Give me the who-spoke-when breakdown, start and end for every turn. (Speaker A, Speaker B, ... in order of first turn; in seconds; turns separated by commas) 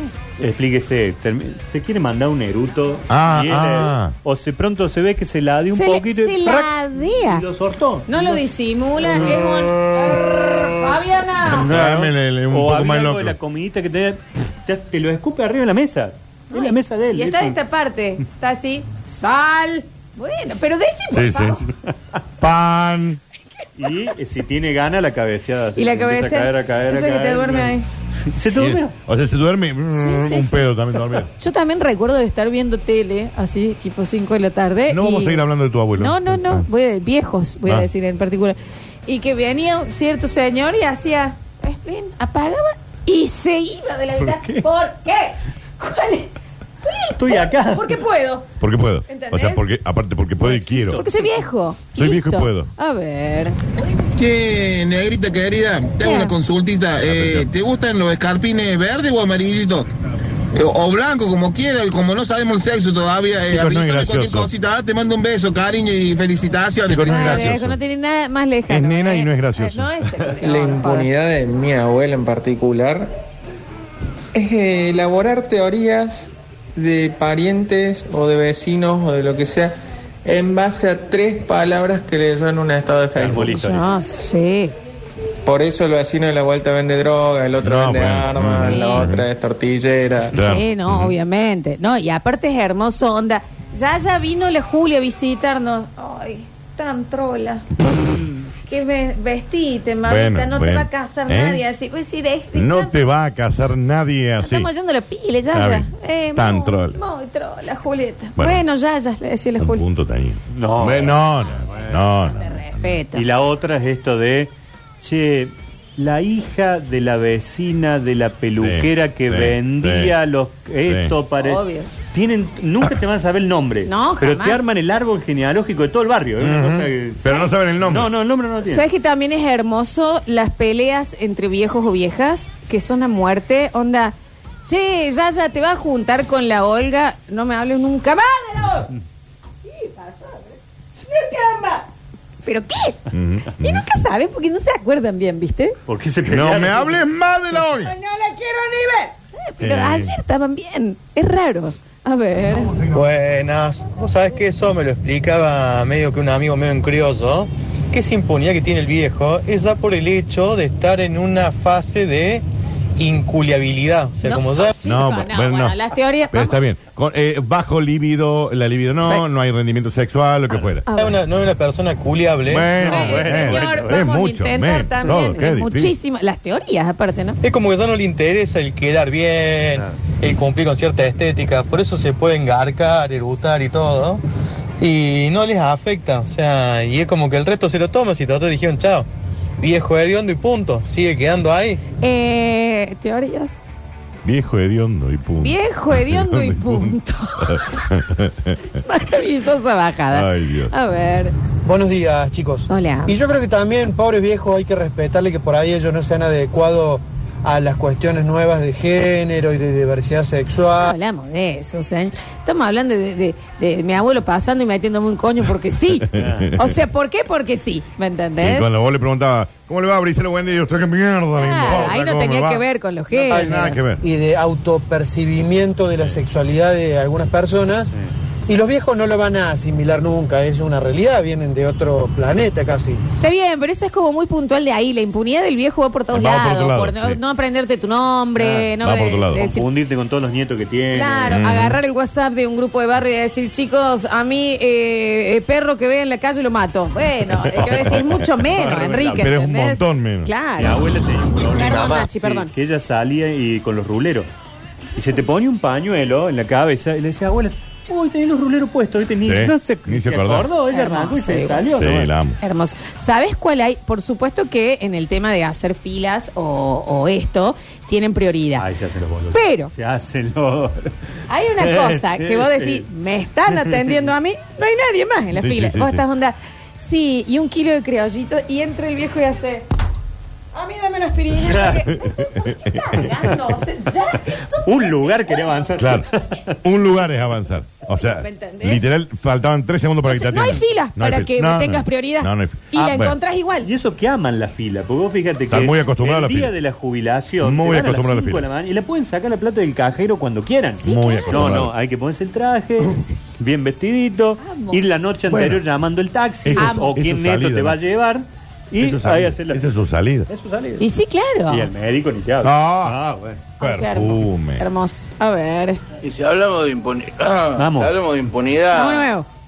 Speaker A: 0.4-8.4, Speaker B: 3.1-4.1, Speaker C: 5.7-7.4, Speaker C: 8.1-11.7, Speaker A: 9.0-9.4, Speaker B: 11.4-13.4, Speaker A: 11.6-17.6, Speaker C: 16.5-21.6, Speaker B: 21.1-21.7, Speaker B: 22.4-23.2, Speaker A: 23.8-28.9, Speaker C: 25.8-27.9, Speaker B: 28.6-31.3, Speaker C: 29.9-35.4, Speaker B: 34.9-36.7, Speaker C: 36.0-46.3, Speaker A: 44.2-44.6, Speaker C: 46.8-48.5, Speaker A: 47.2-48.0, Speaker B: 48.6-51.0, Speaker C: 49.1-49.6, Speaker A: 50.4-51.3, Speaker C: 50.9-53.6, Speaker B: 51.9-52.7, Speaker D: 54.1-59.9, Speaker C: 56.0-56.3, Speaker B: 57.0-57.5, Speaker D: 60.5-67.5, Speaker B: 63.5-64.5, Speaker B: 66.8-67.8, Speaker C: 67.1-71.1, Speaker B: 68.7-70.3, Speaker E: 70.4-73.1, Speaker E: 74.3-83.6, Speaker A: 83.1-83.9, Speaker C: 83.5-84.7, Speaker E: 85.4-90.3, Speaker B: 87.6-89.3, Speaker C: 88.5-89.1, Speaker B: 90.3-91.2, Speaker C: 90.4-97.7, Speaker C: 98.7-103.0, Speaker B: 100.0-101.6, Speaker B: 102.5-104.7, Speaker C: 104.4-109.8, Speaker B: 105.5-107.0, Speaker B: 108.4-108.6, Speaker B: 109.6-112.7, Speaker A: 110.5-111.2, Speaker C: 112.2-113.3, Speaker A: 113.1-128.8, Speaker B: 118.5-120.2, Speaker B: 120.8-121.1, Speaker C: 121.4-121.9, Speaker C: 123.9-124.7, Speaker B: 126.4-128.1, Speaker C: 128.7-134.2, Speaker C: 134.7-138.9, Speaker C: 139.7-140.6, Speaker C: 141.1-141.9, Speaker C: 142.4-143.0, Speaker B: 143.1-143.8, Speaker C: 143.6-145.8, Speaker A: 145.9-147.0, Speaker B: 146.3-147.9, Speaker C: 147.7-152.8, Speaker B: 149.6-150.1, Speaker F: 152.9-162.4, Speaker F: 163.0-164.7, Speaker C: 164.2-166.6, Speaker B: 164.8-165.8, Speaker B: 166.3-170.8, Speaker C: 170.9-171.2, Speaker F: 170.9-172.7, Speaker B: 172.5-175.9, Speaker A: 172.7-174.1, Speaker C: 172.8-177.4, Speaker F: 177.4-184.2, Speaker F: 184.8-189.1, Speaker F: 189.6-191.8, Speaker C: 192.0-193.5, Speaker B: 194.2-198.8, Speaker C: 195.4-197.9, Speaker C: 198.7-201.3, Speaker B: 200.1-200.7, Speaker G: 201.6-210.9, Speaker C: 202.7-203.1, Speaker C: 210.8-218.7, Speaker B: 216.1-216.7, Speaker A: 216.2-216.5, Speaker B: 218.4-222.6, Speaker C: 221.4-223.8, Speaker B: 223.2-224.0, Speaker G: 223.3-227.9, Speaker G: 228.5-233.0, Speaker C: 233.2-239.7, Speaker B: 236.1-237.2, Speaker B: 238.6-239.5, Speaker A: 239.4-241.4, Speaker C: 240.9-250.8, Speaker B: 241.3-241.8, Speaker B: 247.4-248.5, Speaker A: 248.5-249.3, Speaker B: 249.1-250.3, Speaker A: 250.6-254.3, Speaker C: 251.4-252.5, Speaker A: 254.9-262.1, Speaker B: 259.2-260.5, Speaker C: 260.7-261.7, Speaker B: 261.8-262.4, Speaker C: 262.4-268.6, Speaker A: 268.6-270.9, Speaker C: 269.3-269.7, Speaker C: 271.3-279.6, Speaker A: 271.6-272.9, Speaker A: 273.5-273.8, Speaker B: 275.3-276.0, Speaker C: 280.5-285.6, Speaker A: 281.5-281.8, Speaker B: 281.9-283.2, Speaker A: 284.6-286.6, Speaker B: 285.8-286.1, Speaker B: 286.6-293.2, Speaker C: 287.9-288.8, Speaker C: 290.0-293.7, Speaker A: 293.6-309.7, Speaker B: 295.5-296.5, Speaker B: 297.4-298.4, Speaker C: 300.8-301.4, Speaker B: 300.8-301.7, Speaker C: 304.4-304.8, Speaker B: 305.3-305.6, Speaker B: 306.4-307.8, Speaker C: 306.6-306.9, Speaker B: 308.8-310.3, Speaker A: 310.3-310.9, Speaker C: 310.8-311.7, Speaker A: 311.5-313.4, Speaker B: 312.4-313.0, Speaker B: 313.6-314.7, Speaker C: 313.6-315.8, Speaker H: 316.0-319.1, Speaker A: 317.6-318.0, Speaker C: 318.7-319.2